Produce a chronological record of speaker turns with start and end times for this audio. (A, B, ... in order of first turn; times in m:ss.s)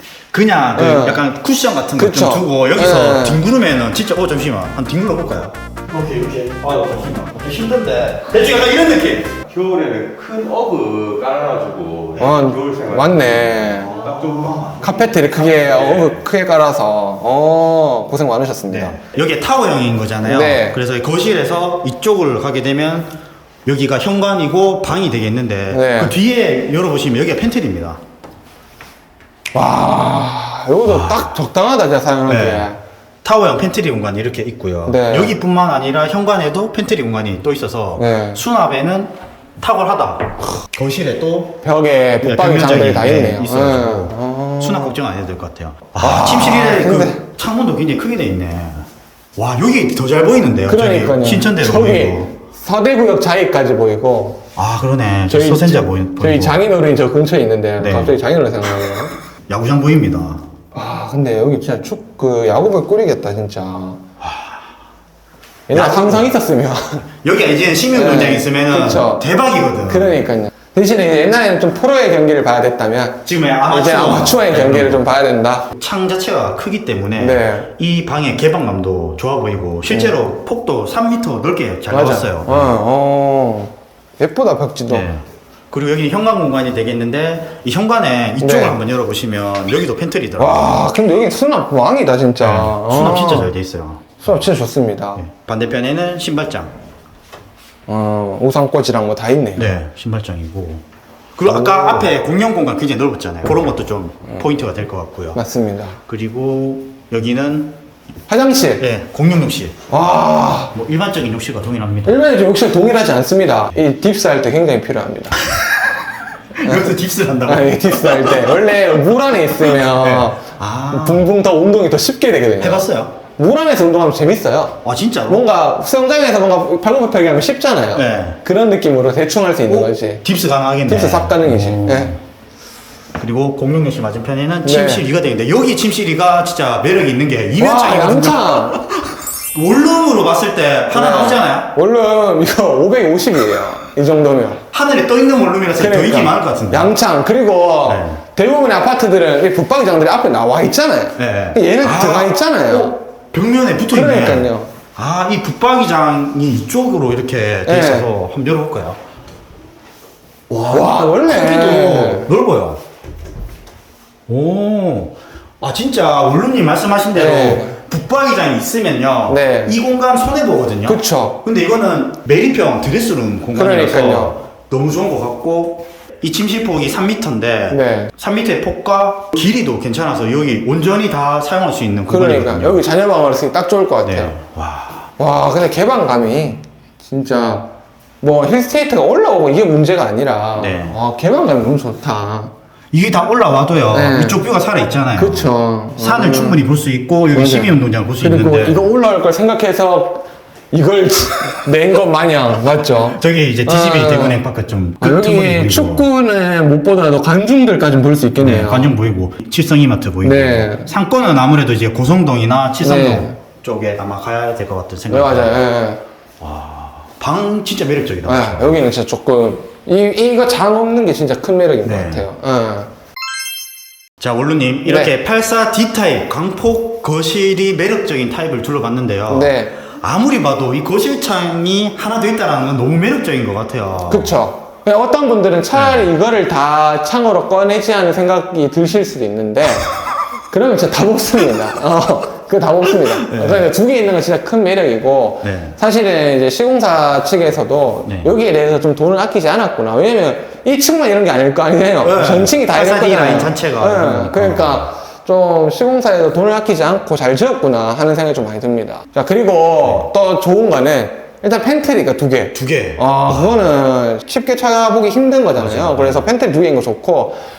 0:00.3-0:09.3 A
0:00.8-0:01.2 B
0:02.0-0:03.4 B
0:06.8-0:07.1 C
0:09.3-0:13.6 C
0:12.2-0:14.0 B
0:13.7-0:15.1 A
0:14.8-0:19.0 B
0:15.1-0:16.2 C
0:18.7-0:28.0 A
0:20.2-0:20.8 B
0:25.7-0:26.2 B
0:29.5-0:32.8 B
0:30.8-0:31.4 A
0:32.3-0:32.7 A
0:33.2-0:41.6 A
0:34.9-0:35.4 B
0:38.0-0:38.4 B
0:41.6-0:45.0 B
0:42.2-0:52.3 A
0:46.0-0:47.2 B
0:50.6-0:54.4 B
0:54.6-0:56.6 A
0:55.3-0:59.1 B
0:57.8-0:58.2 A
0:59.5-1:00.4 A
1:00.7-1:04.0 B
1:04.2-1:04.7 A
1:05.7-1:07.0 B
1:05.7-1:06.3 A
1:07.2-1:10.2 A
1:07.9-1:09.2 B
1:09.9-1:15.7 B
1:13.2-1:15.0 A
1:15.7-1:22.8 A
1:17.2-1:17.7 B
1:19.9-1:20.2 B
1:21.9-1:25.1 B
1:24.9-1:30.8 A
1:28.4-1:28.8 B
1:30.4-1:33.5 B
1:32.4-1:34.5 A
1:34.2-1:35.2 B
1:35.1-1:36.7 A
1:37.9-1:39.8 B
1:39.5-1:40.8 A
1:41.4-1:45.4 A
1:41.5-1:42.1 B
1:45.3-1:46.0 B
1:46.1-1:47.8 A
1:48.3-1:48.8 B
1:48.8-1:49.8 A
1:49.9-1:50.7 B
1:50.7-1:52.2 A
1:52.0-1:55.4 B
1:55.6-1:55.9 A
1:56.6-1:58.8 A
1:56.6-1:57.0 B
1:57.5-2:10.2 B
1:59.6-2:01.3 A
2:02.6-2:03.2 A
2:04.8-2:05.4 A
2:07.9-2:08.4 A
2:09.7-2:12.2 A
2:10.9-2:12.1 B
2:13.2-2:21.7 A
2:14.6-2:15.0 B
2:17.6-2:18.8 B
2:20.9-2:24.6 B
2:24.7-2:27.0 A
2:25.8-2:33.0 B
2:27.8-2:28.2 A
2:31.2-2:39.0 A
2:33.9-2:34.7 B
2:37.6-2:38.1 B
2:40.5-2:42.8 A
2:40.7-2:42.3 B
2:44.3-3:02.8 A
2:47.1-2:47.8 B
2:49.3-2:49.8 B
2:50.9-2:51.4 B
2:53.6-2:54.4 B
2:57.7-2:58.1 B
3:02.1-3:04.3 B
3:04.1-3:05.1 A
3:05.2-3:07.7 B
3:08.2-3:12.5 B
3:10.6-3:11.0 A
3:12.9-3:18.8 A
3:13.9-3:14.4 B
3:15.2-3:16.6 B
3:17.3-3:24.4 B
3:23.1-3:26.0 A
3:25.0-3:29.0 B
3:28.4-3:35.6 A
3:30.2-3:30.9 B
3:32.8-3:33.4 B
3:35.1-3:36.0 B
3:36.4-3:38.9 A
3:38.2-3:42.9 B
3:41.8-3:42.2 A
3:44.2-3:54.4 A
3:44.9-3:45.1 B
3:49.3-3:49.7 B
3:54.1-3:59.9 B
3:55.7-3:56.1 A
4:00.5-4:27.4 B
4:03.2-4:03.6 A
4:05.4-4:05.8 A
4:08.0-4:08.3 A
4:12.0-4:14.9 A
4:19.8-4:20.1 A
4:22.5-4:23.7 A
4:25.6-4:26.2 A